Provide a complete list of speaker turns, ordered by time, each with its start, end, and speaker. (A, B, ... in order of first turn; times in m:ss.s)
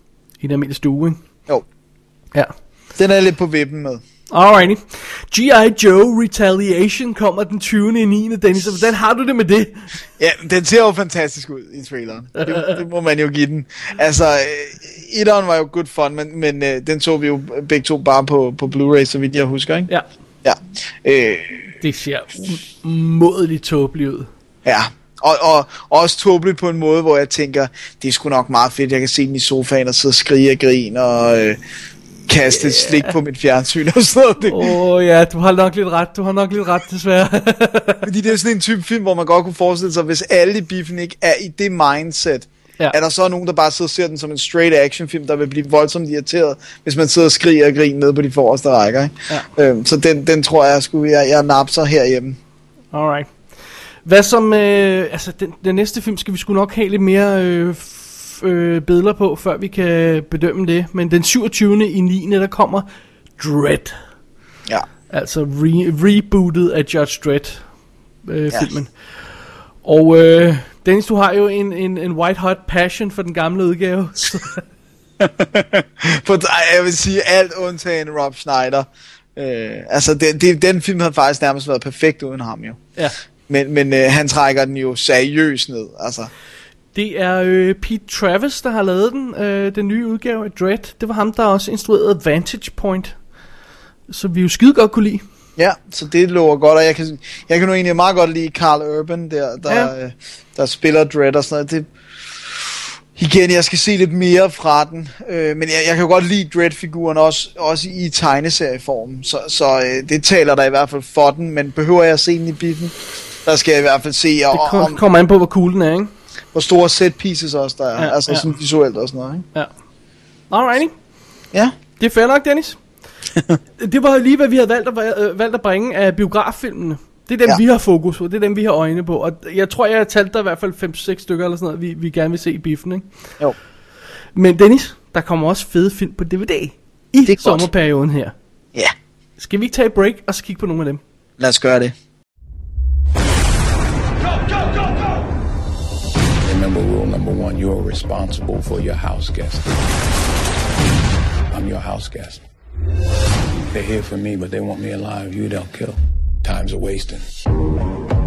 0:00.4-0:01.2 A
0:02.9-0:04.0 B
0:04.3-0:09.9 A
0:10.2-0:19.9 B
0:12.4-0:12.8 A
0:20.4-0:21.7 B
0:21.8-0:24.3 A
0:24.6-0:31.6 B
0:32.3-0:34.7 B
0:32.5-0:33.1 A
0:34.4-0:38.0 A
0:38.0-0:52.4 B
0:52.9-0:53.3 A
0:54.0-1:02.9 A
1:03.4-1:04.0 A
1:05.1-1:07.6 A
1:08.2-1:08.9 A
1:09.8-1:14.6 A
1:15.2-1:22.8 B
1:23.5-1:26.3 B
1:26.9-1:33.1 A
1:34.1-1:35.2 A
1:35.6-1:41.9 B
1:39.7-1:39.9 A
1:42.4-1:55.0 B
1:54.5-1:56.1 A
1:56.5-1:59.4 B
1:58.0-1:58.5 A
2:00.5-2:00.9 A
2:02.0-2:02.8 A
2:03.8-2:13.1 A
2:14.3-2:18.3 A
2:17.3-2:17.7 B
2:19.4-2:21.0 A
2:21.4-2:21.9 B
2:26.4-2:29.7 C
2:31.5-2:32.4 C
2:33.7-2:37.2 C